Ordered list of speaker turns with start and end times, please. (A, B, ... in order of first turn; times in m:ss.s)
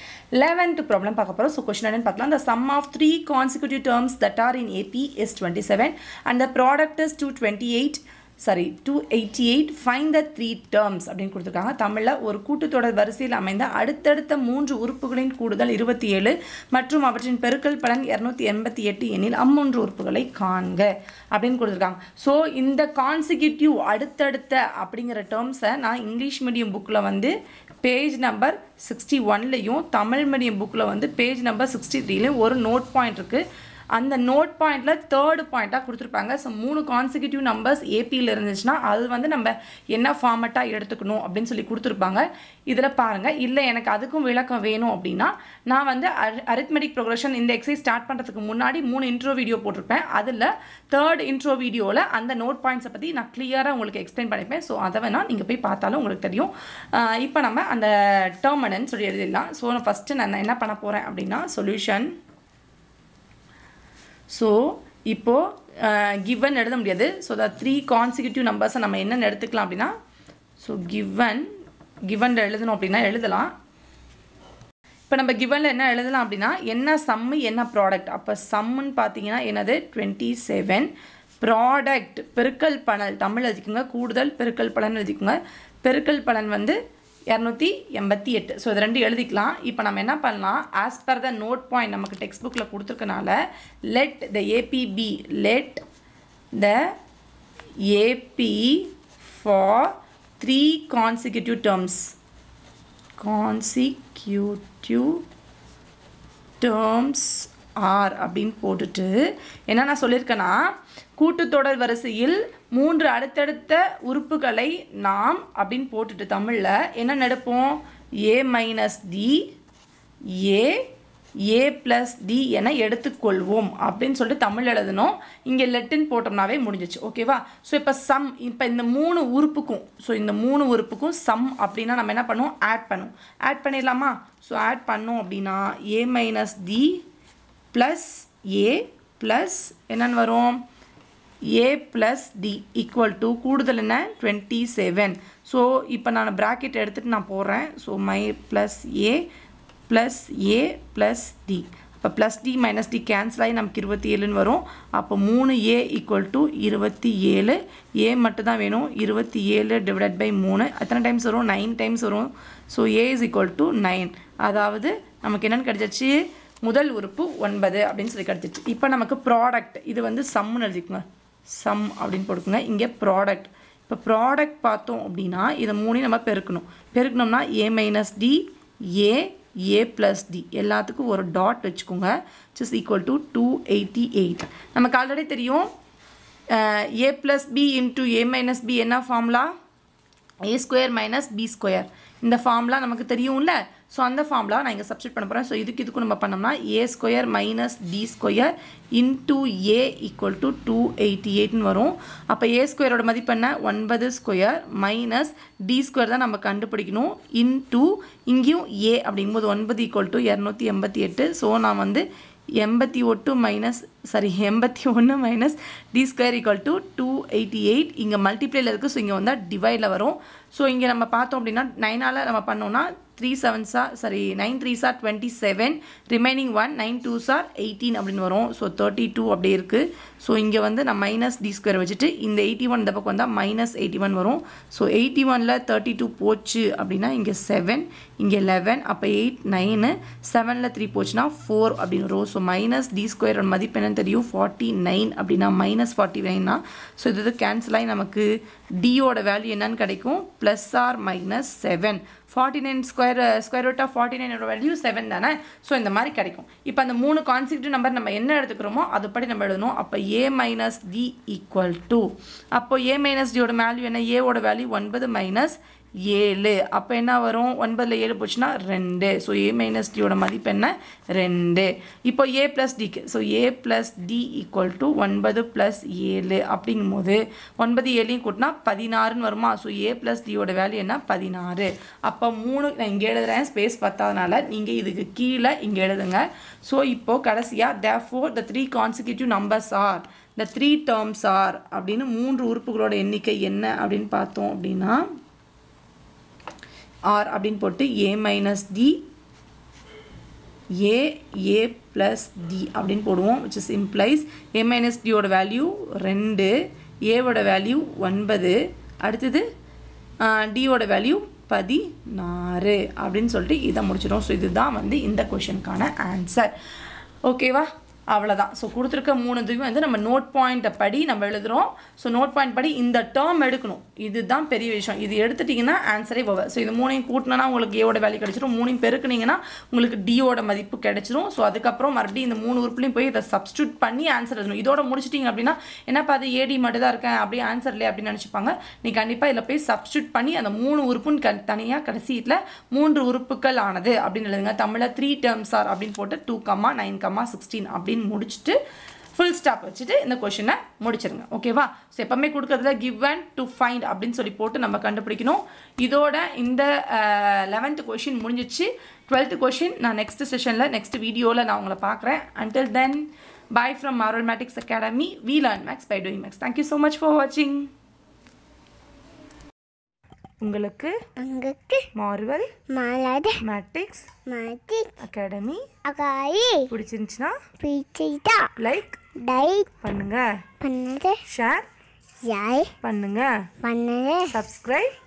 0:00.3-1:02.1 A
1:04.3-1:09.9 A
1:10.6-1:11.4 A
1:12.1-1:13.5 A
1:15.1-1:20.9 A
1:21.4-1:26.8 A
1:27.3-1:33.4 A
1:33.9-1:35.8 A
1:36.5-1:36.8 A
1:37.8-1:42.1 A
1:43.2-1:45.2 A
1:46.6-1:49.2 A
1:49.7-1:50.6 A
1:51.2-1:59.4 A
2:00.4-2:00.8 A
2:01.5-2:17.0 A
2:17.7-2:20.6 A
2:21.5-2:29.2 A
2:29.9-2:51.0 A
2:51.6-3:05.7 A
3:06.5-3:09.5 A
3:10.4-3:32.0 A
3:32.6-4:55.0 A
4:57.1-4:59.0 A
5:00.8-5:06.5 A
5:07.1-5:09.4 A
5:10.2-5:16.5 A
5:17.2-5:48.6 A
5:49.1-6:07.7 A
6:10.4-6:11.0 A
6:11.2-6:11.9 B
6:11.9-6:12.5 A
6:12.7-6:13.4 B
6:13.4-6:14.1 A
6:14.2-6:15.0 B
6:15.0-6:15.6 A
6:15.8-6:16.7 B
6:16.7-6:17.4 A
6:17.6-6:18.5 B
6:18.6-6:19.0 A
6:19.2-6:19.7 B
6:19.8-6:20.2 A
6:20.6-6:21.2 B
6:21.2-6:21.6 A
6:22.2-6:22.7 B
6:22.8-6:23.3 A
6:23.6-6:24.3 B
6:24.2-6:24.9 A